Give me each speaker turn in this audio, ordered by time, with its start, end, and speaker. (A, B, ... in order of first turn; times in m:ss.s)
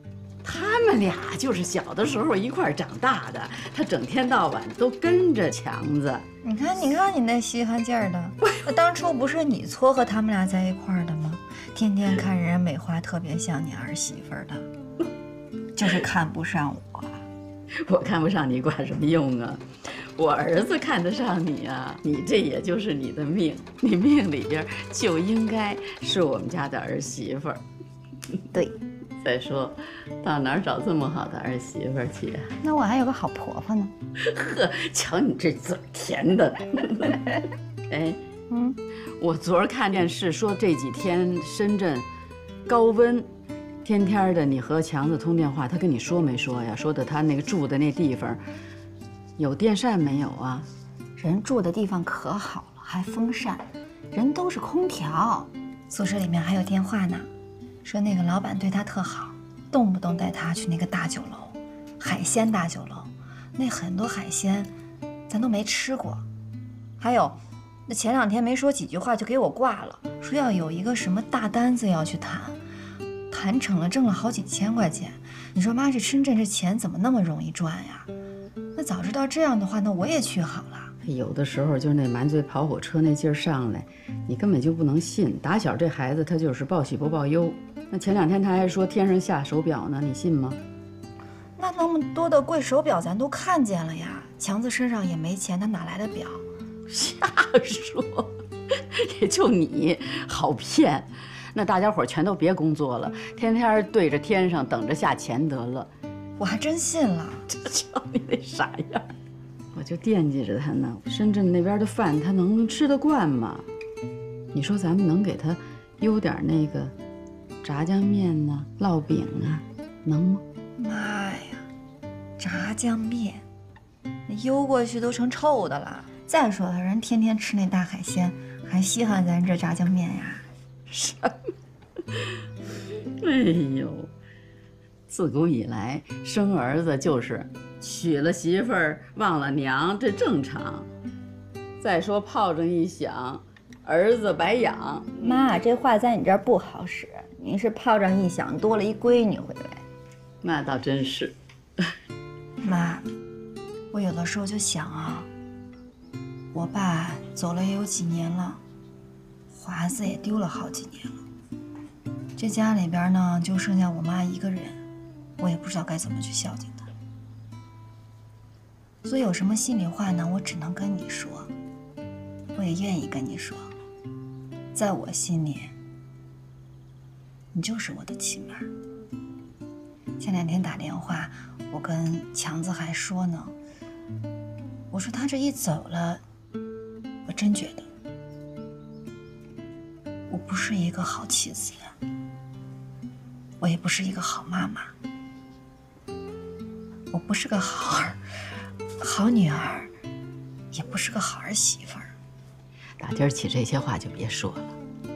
0:00.4-0:06.2 A
0:06.4-0:14.7 B
0:15.7-0:17.2 B
0:17.8-0:27.6 A
0:29.2-0:32.5 A
0:32.6-0:33.9 B
0:34.2-0:37.2 A
0:37.9-0:38.2 A
0:38.5-0:38.8 B
0:39.2-0:42.1 A
0:42.6-0:43.3 A
0:43.8-0:48.4 A
0:49.4-0:50.7 A
0:51.2-0:57.3 B
0:57.8-1:04.7 B
1:05.3-1:06.2 B
1:07.0-1:12.6 B
1:13.3-1:18.1 B
1:18.7-1:20.9 B
1:21.0-1:30.6 A
1:31.6-1:36.4 B
1:36.9-1:45.9 A
1:46.4-1:47.4 B
1:47.5-1:49.1 A
1:49.7-1:53.7 A
1:54.5-1:56.9 A
1:57.6-2:00.4 A
2:00.8-2:01.7 B
2:02.4-2:03.4 B
2:04.2-2:10.4 B
2:10.9-2:11.5 A
2:13.2-2:14.1 A
2:15.1-2:20.9 A
2:21.8-2:25.3 A
2:25.2-2:29.8 B
2:30.4-2:31.4 A
2:32.6-2:33.1 B
2:33.9-2:35.3 B
2:36.5-2:38.6 B
2:39.5-2:41.2 B
2:42.4-2:44.8 B
2:45.4-2:46.9 B
2:49.0-2:51.5 B
2:52.5-2:53.7 B
2:54.7-2:55.7 B
2:57.5-2:58.7 B
3:00.2-3:03.5 B
3:04.9-3:06.2 B
3:07.2-3:07.9 B
3:10.3-3:11.9 B
3:13.6-3:14.9 B
3:17.1-3:18.2 B
3:19.0-3:19.9 B
3:20.7-3:22.1 B
3:23.0-3:24.8 A